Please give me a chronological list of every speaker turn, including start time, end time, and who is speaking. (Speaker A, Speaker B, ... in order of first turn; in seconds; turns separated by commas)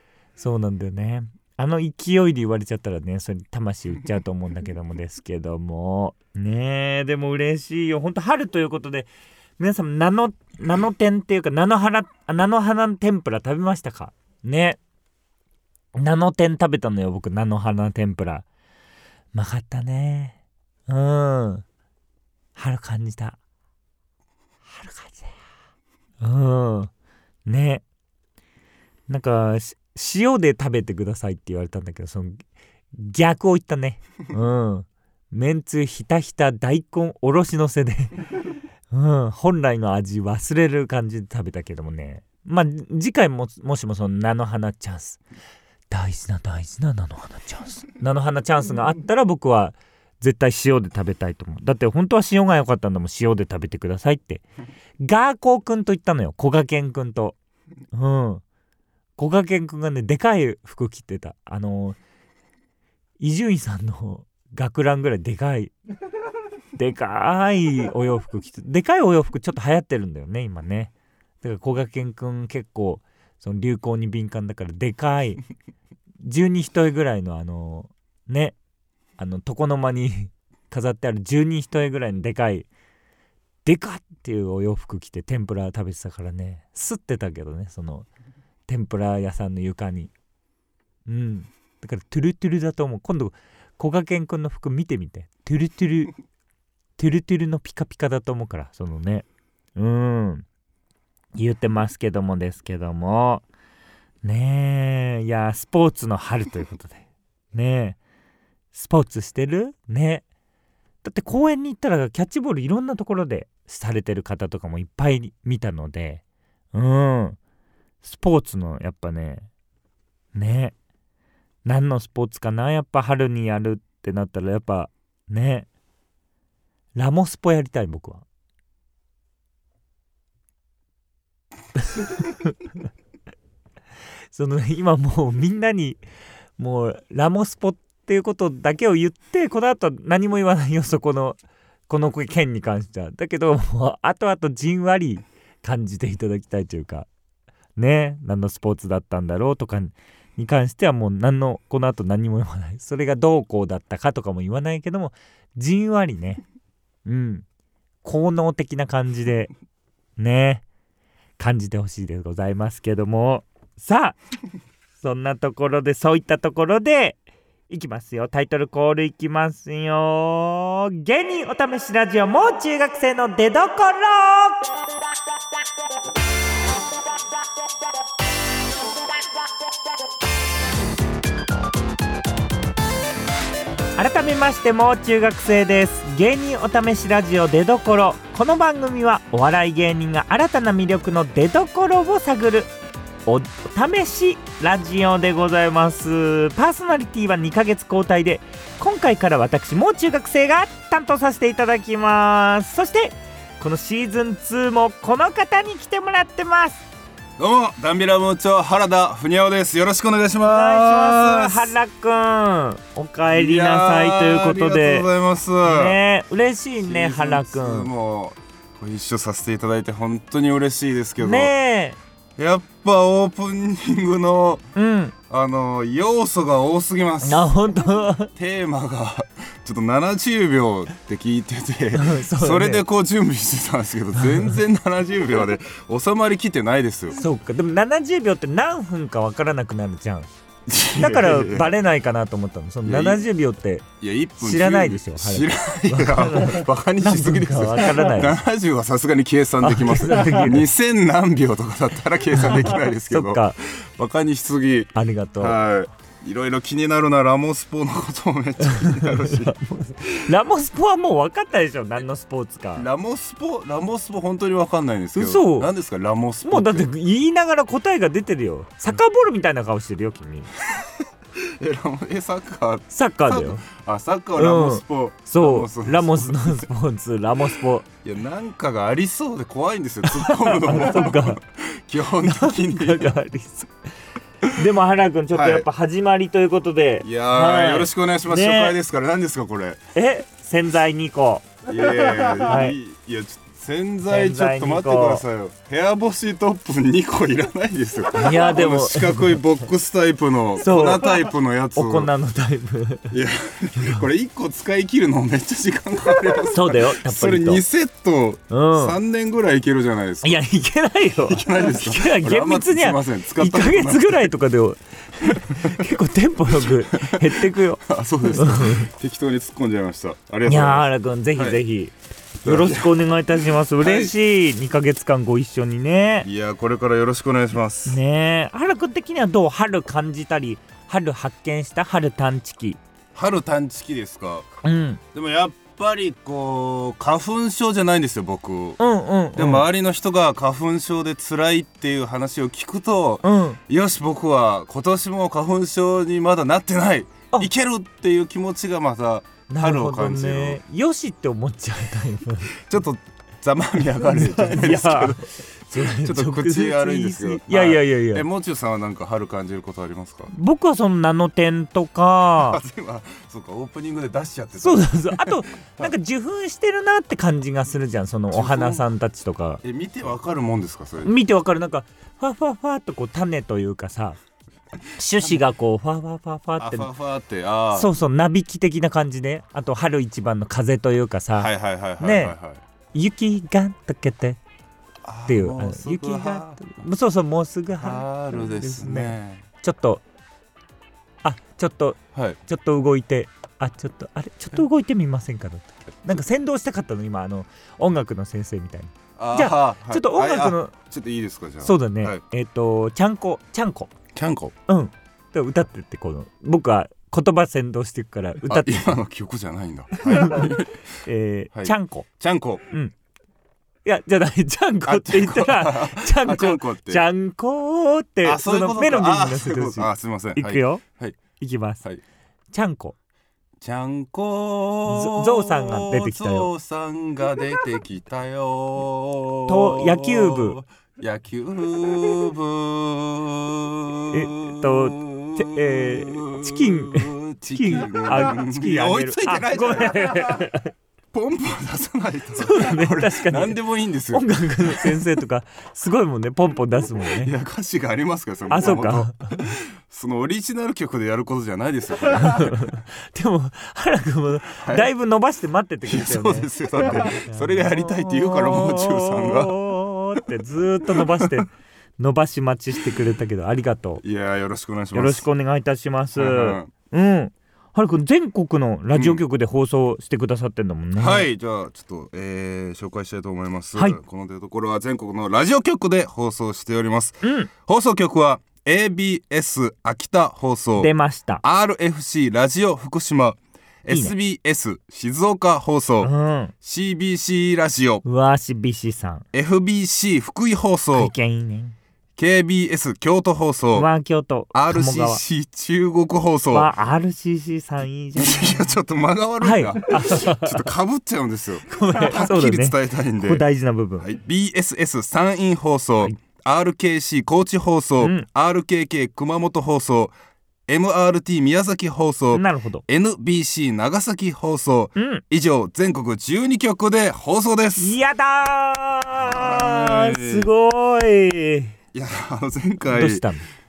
Speaker A: 0.4-14.8, Speaker A: 15.9-18.4, Speaker A: 19.3-21.6, Speaker A: 22.6-23.4, Speaker A: 24.6-25.3, Speaker A: 26.2-26.9, Speaker A: 27.4-27.8, Speaker A: 29.1-32.4, Speaker A: 32.9-38.2, Speaker A: 38.9-45.2, Speaker A: 45.9-54.4, Speaker A: 55.0-57.4, Speaker A: 57.9-58.4, Speaker A: 59.2-62.0, Speaker A: 63.2-65.7, Speaker A: 66.7-75.4, Speaker A: 76.2-78.5, Speaker A: 79.2-82.7, Speaker A: 83.6-88.1, Speaker A: 88.7-90.1, Speaker A: 91.0-96.1, Speaker A: 97.0-100.5, Speaker A: 101.3-103.4, Speaker A: 104.2-108.0, Speaker A: 108.7-110.2, Speaker A: 111.0-116.2, Speaker A: 116.7-117.4, Speaker A: 118.0-119.5, Speaker A: 120.3-120.7, Speaker A: 121.6-125.7, Speaker A: 126.9-128.2, Speaker A: 131.8-132.6, Speaker A: 134.3-136.0, Speaker A: 136.6-147.1, Speaker A: 147.8-156.4, Speaker A: 157.1-157.4, Speaker A: 158.0-159.5, Speaker A: 160.2-160.6, Speaker A: 161.4-164.2, Speaker A: 165.0-174.7, Speaker A: 183.9-192.7, Speaker A: 193.2-206.8, Speaker B: 207.4-211.7, Speaker A: 210.4-215.1, Speaker B: 213.3-216.0, Speaker A: 215.6-217.9, Speaker B: 216.8-221.5, Speaker A: 221.2-222.0, Speaker B: 222.4-224.6, Speaker A: 224.7-225.1, Speaker B: 225.3-227.5, Speaker A: 227.2-228.3, Speaker B: 228.3-237.2, Speaker A: 231.9-232.8, Speaker A: 234.2-234.5, Speaker A: 237.1-240.3, Speaker B: 240.7-241.7, Speaker A: 240.9-243.9, Speaker B: 242.8-243.2, Speaker B: 244.0-260.1, Speaker A: 244.4-248.4, Speaker A: 249.6-250.7, Speaker A: 252.4-253.6, Speaker A: 254.9-255.6, Speaker A: 258.6-262.9, Speaker B: 262.8-266.9, Speaker A: 265.1-265.7, Speaker A: 266.4-270.5, Speaker B: 270.7-276.6, Speaker A: 272.9-273.6, Speaker A: 274.4-277.9, Speaker B: 278.0-283.2, Speaker A: 280.1-281.4, Speaker A: 282.2-283.7, Speaker A: 284.5-288.7, Speaker B: 285.3-285.7, Speaker B: 287.0-289.8, Speaker A: 289.9-291.5, Speaker B: 291.6-302.1, Speaker A: 292.3-292.8, Speaker A: 294.1-295.2, Speaker A: 298.1-299.4, Speaker A: 300.6-303.1, Speaker B: 303.1-310.4, Speaker A: 303.8-304.0, Speaker A: 306.4-307.6, Speaker A: 308.5-309.0, Speaker A: 310.2-318.9, Speaker B: 311.2-314.3, Speaker B: 315.3-315.9, Speaker B: 316.5-321.6, Speaker A: 320.4-326.3, Speaker B: 322.4-322.9, Speaker B: 323.8-324.1, Speaker B: 326.2-328.0, Speaker A: 327.9-332.8, Speaker B: 333.1-334.4, Speaker A: 334.6-335.0, Speaker B: 335.1-338.8, Speaker A: 338.8-339.6, Speaker B: 339.3-350.6, Speaker A: 343.2-343.6, Speaker A: 349.5-352.6, Speaker B: 352.5-360.3, Speaker A: 354.0-358.2, Speaker A: 360.3-362.6, Speaker B: 362.4-365.9, Speaker A: 364.6-369.6, Speaker B: 368.3-368.9, Speaker B: 369.6-371.1, Speaker A: 371.0-374.2, Speaker A: 374.9-376.9, Speaker B: 376.6-377.9, Speaker A: 377.7-382.4, Speaker B: 381.4-382.6, Speaker A: 382.9-384.4, Speaker B: 385.0-386.6, Speaker A: 385.3-390.0, Speaker B: 387.8-389.4, Speaker A: 391.2-400.7, Speaker B: 392.1-392.4, Speaker B: 399.1-402.2, Speaker A: 401.6-403.9, Speaker B: 404.1-404.5, Speaker A: 404.7-409.0, Speaker B: 408.4-410.8, Speaker A: 410.0-410.5, Speaker A: 411.0-412.1, Speaker B: 411.5-412.6, Speaker A: 413.8-420.8, Speaker B: 414.9-417.0, Speaker B: 418.2-421.2, Speaker A: 421.4-421.8, Speaker A: 422.5-422.9, Speaker B: 423.6-440.4, Speaker A: 424.9-426.5, Speaker A: 429.5-430.6, Speaker A: 434.1-440.7, Speaker B: 441.1-445.0, Speaker A: 442.4-443.6, Speaker A: 444.1-447.3, Speaker B: 447.0-452.7, Speaker A: 448.5-449.5, Speaker A: 452.2-464.0, Speaker B: 454.5-454.9, Speaker B: 455.8-459.6, Speaker B: 460.9-461.4, Speaker B: 464.0-465.2, Speaker A: 464.9-471.3, Speaker B: 466.1-466.7, Speaker B: 468.9-469.2, Speaker B: 471.0-480.9, Speaker A: 477.2-477.5, Speaker A: 480.8-481.4, Speaker B: 481.4-486.1, Speaker A: 483.9-484.1, Speaker A: 486.0-486.5, Speaker B: 486.6-488.0, Speaker A: 488.0-489.2, Speaker B: 489.3-491.1, Speaker A: 490.9-491.7, Speaker B: 492.2-493.9, Speaker A: 493.7-495.2, Speaker B: 494.5-496.7, Speaker A: 496.5-498.6, Speaker B: 498.2-503.4, Speaker A: 499.4-500.7, Speaker A: 501.7-504.1, Speaker B: 504.0-510.1, Speaker A: 508.0-508.2, Speaker B: 510.7-517.9, Speaker A: 512.3-512.8, Speaker A: 515.0-515.2, Speaker A: 517.8-521.7, Speaker B: 519.2-520.5, Speaker B: 521.9-523.2, Speaker A: 522.9-523.5